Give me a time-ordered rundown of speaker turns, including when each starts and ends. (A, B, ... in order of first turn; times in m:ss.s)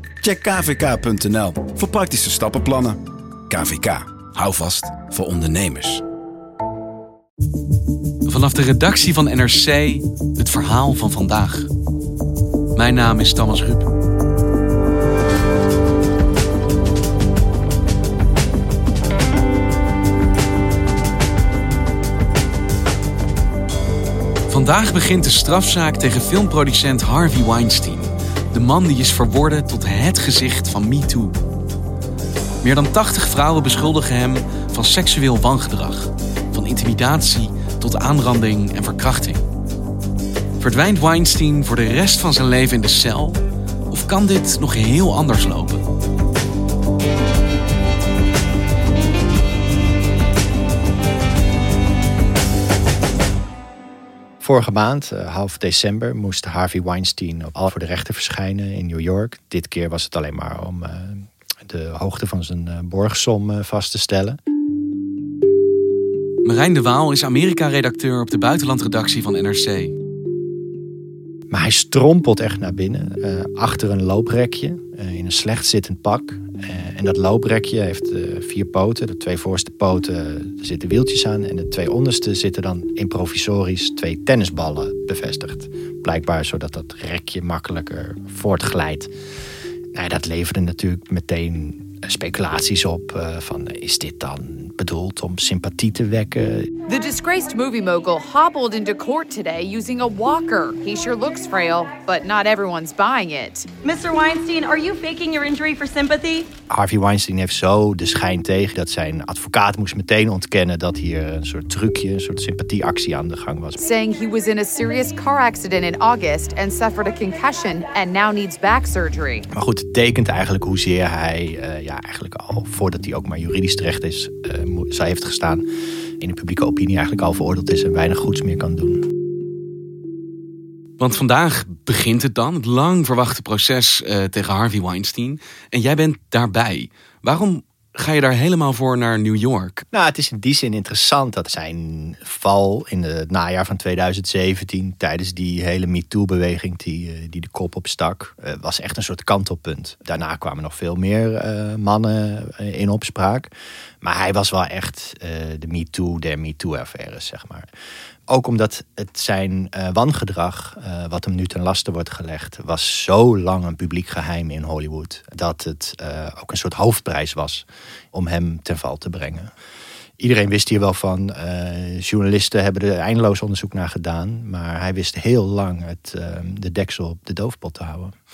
0:00.2-0:02.9 A
0:03.5-0:06.0 A
0:08.3-0:11.7 B
0:12.8-0:13.9 B
0:24.5-0:31.4 B
0:32.6-0:39.4 B
0:40.6-0:45.8 B
0:54.4-1:04.4 C
1:06.4-1:09.9 B
1:11.5-1:29.1 C
1:29.9-1:36.7 C
1:36.9-1:43.7 D
1:43.8-1:46.4 E
1:46.7-1:53.8 C
1:53.9-1:59.4 D
1:59.5-2:05.6 C
2:06.2-2:09.1 C
2:11.0-2:19.8 B
2:19.9-2:33.5 C
2:34.0-2:37.7 C
2:38.3-2:49.5 C
2:50.2-2:58.1 C